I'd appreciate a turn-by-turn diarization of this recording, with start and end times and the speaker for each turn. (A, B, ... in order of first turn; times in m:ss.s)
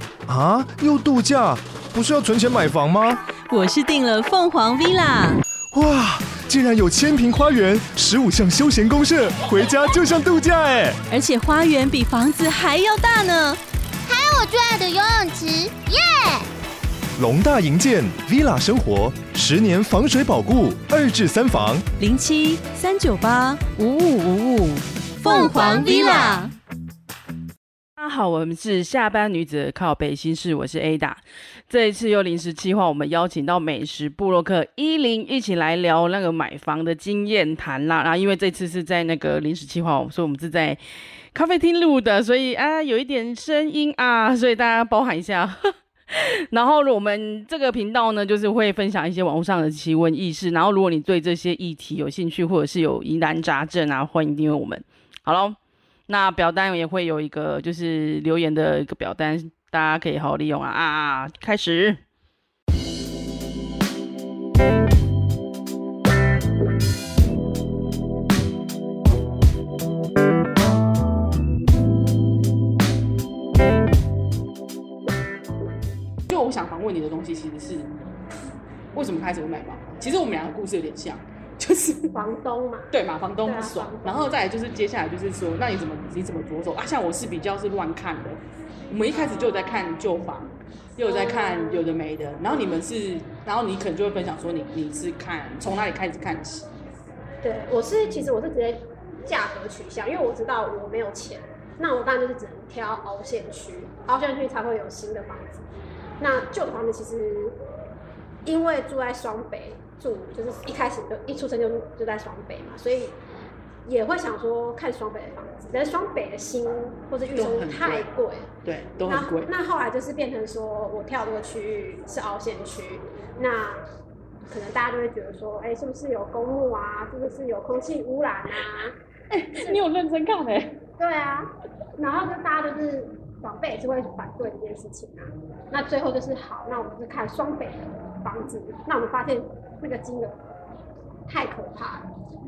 0:00.3-0:03.2 A
0:03.5-0:05.4 B
0:05.7-0:11.0 A
0:11.1-0:13.6 B
0:14.0-0:16.5 C
0:17.2-0:21.9 A
0:22.0-0:26.5 B
0:25.2-0:26.4 C
0:28.0-0:40.8 D
0:41.3-0:55.6 D
0:56.1-1:02.0 D
1:16.3-1:18.0 E
1:18.9-1:22.1 E
1:22.1-1:22.9 F
1:22.9-1:36.7 E
1:23.4-1:24.4 F
1:29.1-1:29.8 F
1:31.0-1:31.8 F
1:32.5-1:32.8 F
1:37.4-1:45.6 F
1:46.2-1:47.6 F
1:48.4-1:53.2 F
1:53.8-1:58.5 F
1:57.3-1:58.1 E
1:58.6-1:59.5 E
1:59.0-2:03.8 F
2:04.5-2:08.9 F
2:09.3-2:10.8 E
2:11.0-2:20.5 F
2:21.3-2:22.1 F